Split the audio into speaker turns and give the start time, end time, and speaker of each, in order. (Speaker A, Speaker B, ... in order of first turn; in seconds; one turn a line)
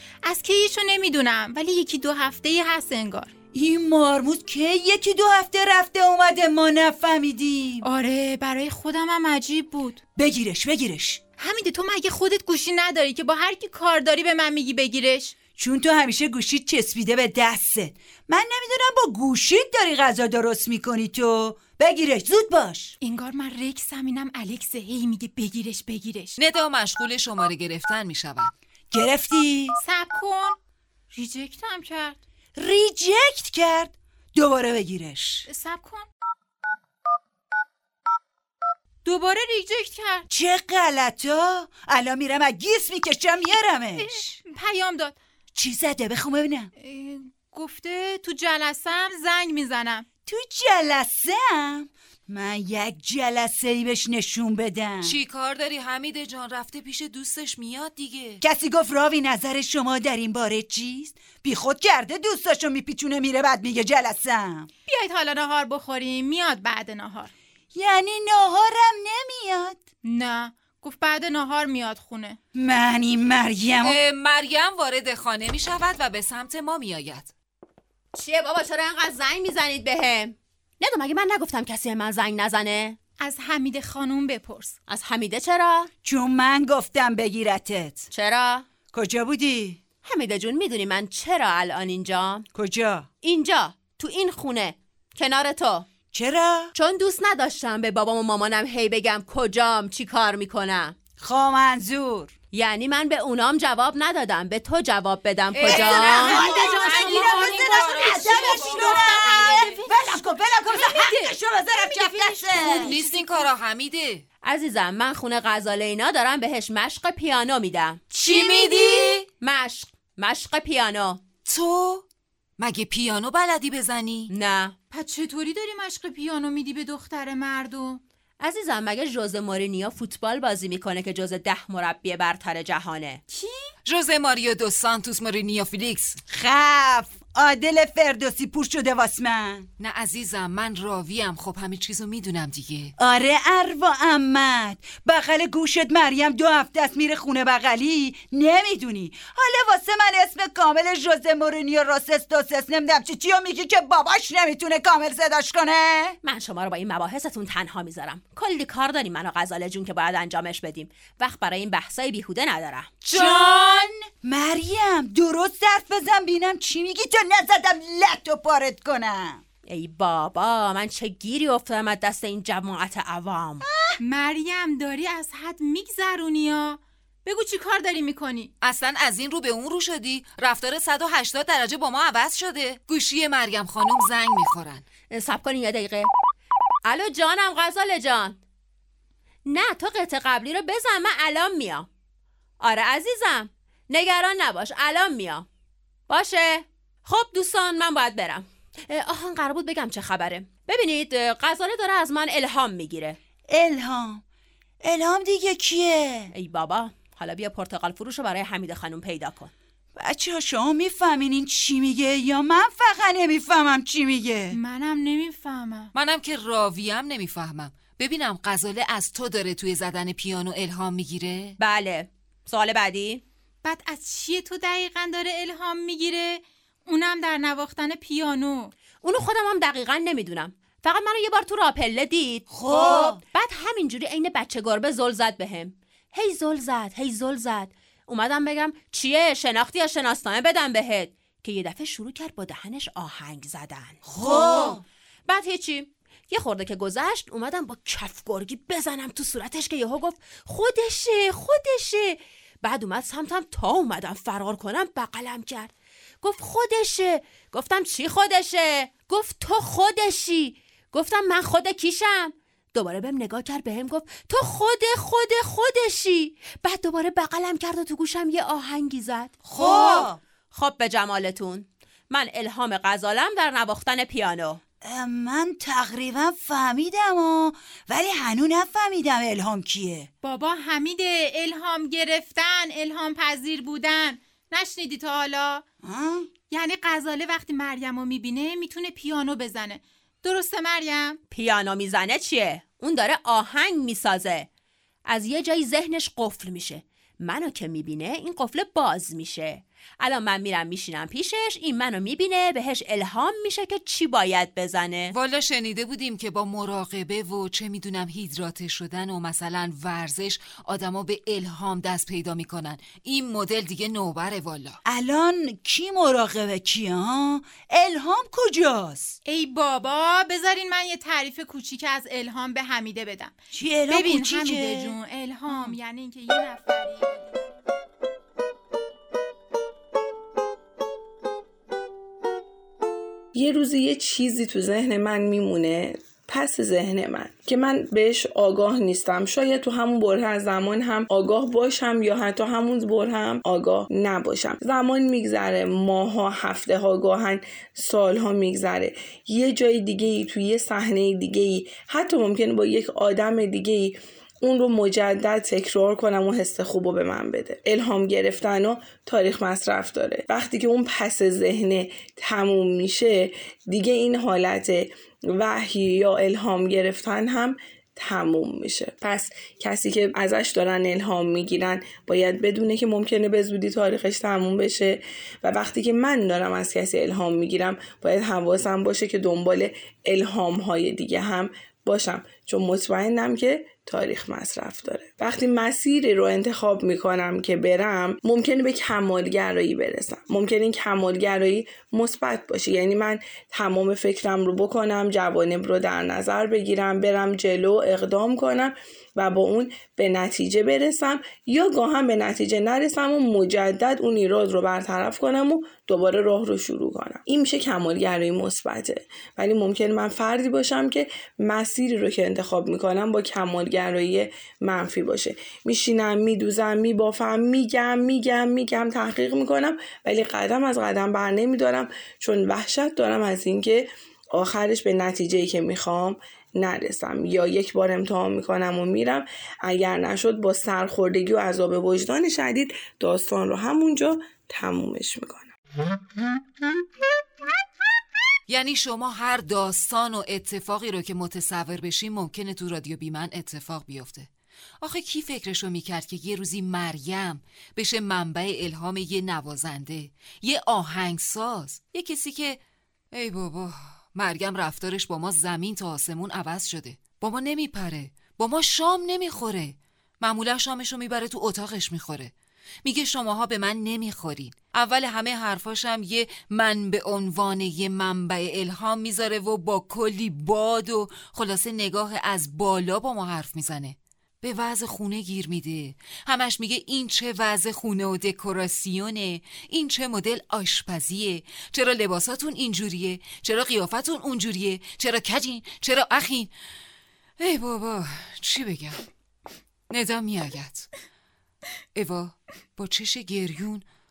Speaker A: 0.2-3.3
Speaker B: 3.5-7.8
Speaker A: 7.8-10.0
Speaker B: 10.2-11.2
Speaker A: 11.4-15.3
Speaker B: 15.5-22.9
Speaker A: 23.0-26.4
Speaker C: 26.4-28.5
Speaker B: 28.9-29.8
Speaker A: 29.8-30.6
Speaker A: 31.1-32.2
Speaker B: 32.6-35.5
Speaker A: 35.5-36.1
Speaker A: 39.0-40.3
Speaker B: 40.3-44.2
Speaker A: 44.0-45.2
Speaker B: 45.5-46.7
Speaker A: 46.8-50.1
Speaker B: 50.3-55.2
Speaker C: 55.0-58.4
Speaker B: 58.4-64.7
Speaker A: 64.9-67.3
Speaker B: 67.7-69.8
Speaker A: 70.0-72.4
Speaker B: 72.5-74.0
Speaker C: 73.8-77.3
Speaker D: 78.2-83.0
Speaker A: 83.2-84.8
Speaker D: 84.9-85.9
Speaker B: 86.0-88.1
Speaker D: 88.1-88.7
Speaker B: 88.9-89.8
Speaker D: 90.0-92.5
Speaker B: 92.5-93.1
Speaker D: 93.2-95.9
Speaker B: 96.1-96.7
Speaker D: 96.7-101.0
Speaker B: 101.2-102.3
Speaker D: 102.5-107.8
Speaker C: 105.5-109.6
Speaker B: 105.7-113.0
Speaker A: 106.3-113.1
Speaker D: 108.4-109.7
Speaker C: 112.8-114.2
Speaker D: 114.4-118.0
Speaker A: 118.1-119.2
Speaker C: 118.2-119.3
Speaker D: 119.4-121.2
Speaker C: 121.5-122.0
Speaker C: 122.6-124.3
Speaker D: 124.3-124.8
Speaker A: 124.9-128.0
Speaker D: 128.4-133.2
Speaker A: 133.3-133.7
Speaker C: 133.8-136.2
Speaker B: 136.3-139.7
Speaker C: 139.8-142.9
Speaker B: 143.0-156.2
Speaker D: 156.2-162.9
Speaker B: 163.0-169.4
Speaker C: 163.1-163.5
Speaker D: 169.7-173.7
Speaker A: 174.0-178.5
Speaker C: 178.6-184.8
Speaker D: 185.1-186.1
Speaker D: 186.9-188.4
Speaker D: 189.5-191.9
Speaker D: 192.6-195.5
Speaker D: 196.1-203.2
Speaker B: 203.5-204.2
Speaker B: 204.8-206.3
Speaker D: 206.3-209.5
Speaker B: 210.0-214.6
Speaker A: 214.5-215.9
Speaker C: 215.9-221.6
Speaker D: 221.6-223.2
Speaker A: 223.6-228.7
Speaker D: 229.0-274.6
Speaker B: 232.5-233.2
Speaker B: 244.1-244.8
Speaker B: 269.4-270.2
Speaker C: 269.5-270.1
Speaker B: 274.8-280.1
Speaker A: 280.2-285.6
Speaker B: 285.8-286.3
Speaker A: 286.4-291.2
Speaker D: 291.3-294.5
Speaker D: 295.1-305.1
Speaker C: 305.1-314.8
Speaker B: 314.9-319.2
Speaker A: 319.2-323.4
Speaker B: 323.5-325.0
Speaker A: 323.9-327.5
Speaker B: 325.5-325.8
Speaker E: 333.4-435.5
Speaker C: 438.5-452.6
Speaker C: 453.1-462.3
Speaker C: 462.8-486.5
Speaker C: 487.4-489.0
Speaker C: 489.9-490.9
Speaker C: 491.9-493.9